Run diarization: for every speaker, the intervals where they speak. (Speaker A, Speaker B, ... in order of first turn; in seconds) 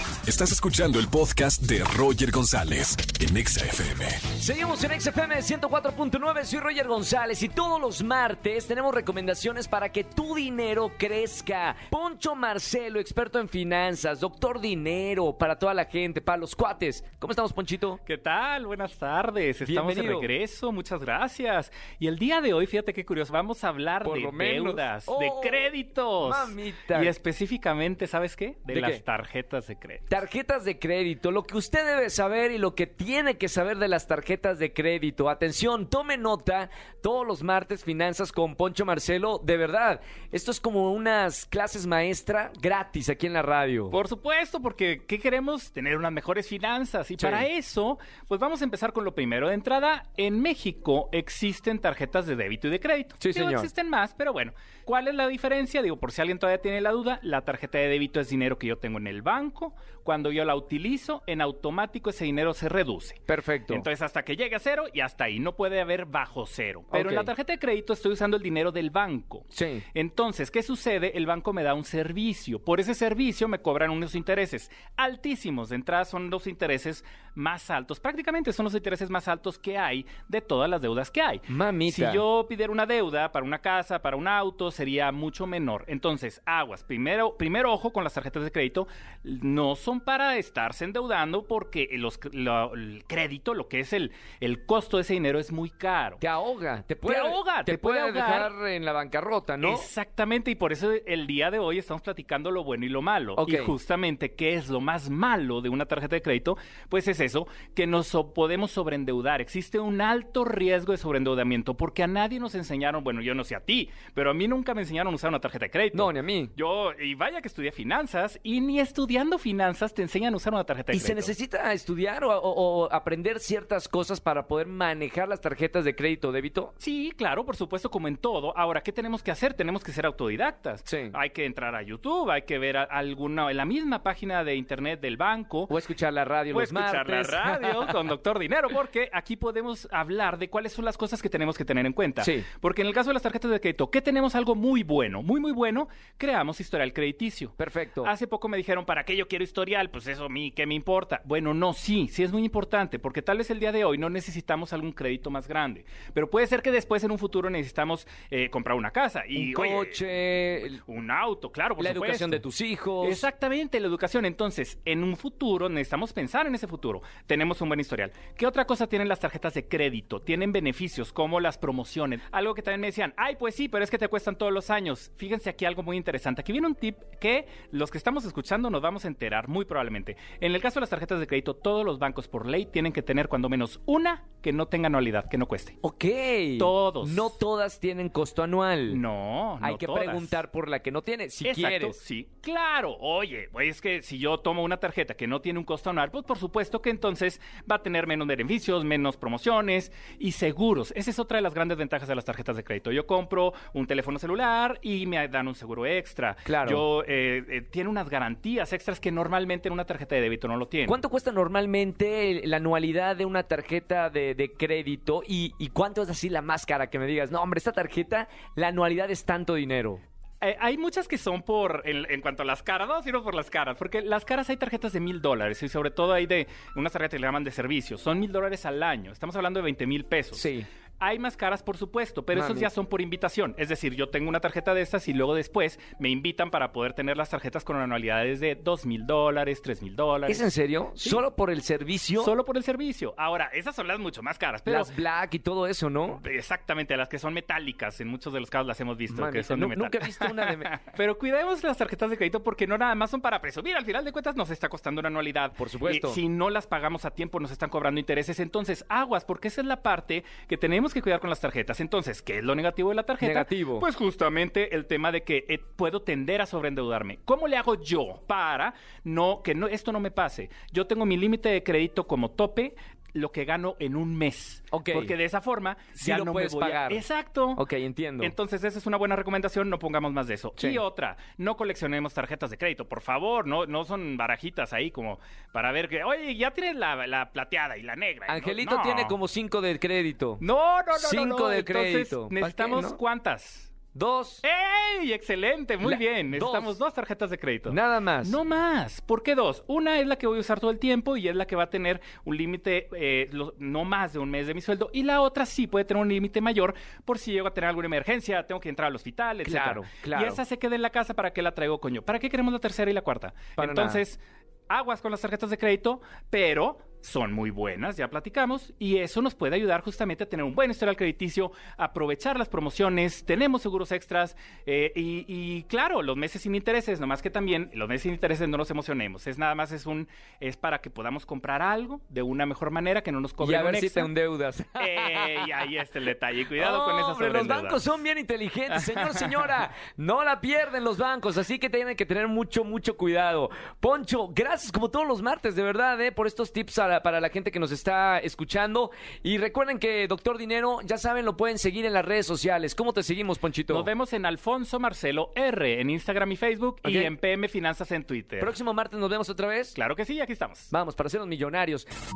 Speaker A: 0.3-4.2
Speaker B: 4.4-18.0, 19.6-20.3, 24.0-25.7, 26.2-27.1, 28.7-29.0, 30.1-44.0, 47.2-47.5, 53.2-53.7, 63.3-63.9, 66.9-67.3, 69.5-69.8, 81.5-82.2, 96.2-99.9, 103.4-103.8, 115.9-116.5, 120.9-126.7, 130.9-131.2, 135.7-138.1, 142.2-142.5, 147.6-148.1, 159.4-160.8, 161.8-163.3, 185.8-189.0, 189.6-192.0, 206.5-206.8, 210.9-220.0, 230.3-230.7, 232.3-232.7, 240.3-242.3, 244.7-246.2, 249.1-250.8, 255.6-256.2, 263.2-263.9, 274.7-275.1, 275.9-278.3, 280.6-280.8, 288.3-290.4, 290.9-293.0, 293.9-294.4, 295.8-296.8, 297.7-298.4, 309.4-310.4, 313.6-314.0, 333.4-335.5, 336.6-353.9, 356.8-357.1, 358.4-359.8, 360.7-361.9
Speaker C: 18.1-30.1, 43.9-96.2, 97.1-98.5, 99.6-121.3, 126.8-135.7, 136.5-160.0, 160.9-162.4, 163.0-185.8, 186.6-187.4, 188.9-190.4, 191.4-211.0, 220.4-230.5, 231.0-240.5, 242.2-244.9, 246.1-277.6, 278.2-289.1, 290.4-293.7, 294.4-314.2, 314.7-334.1, 334.8-338.0, 338.7-339.4, 353.7-358.6, 359.8-360.7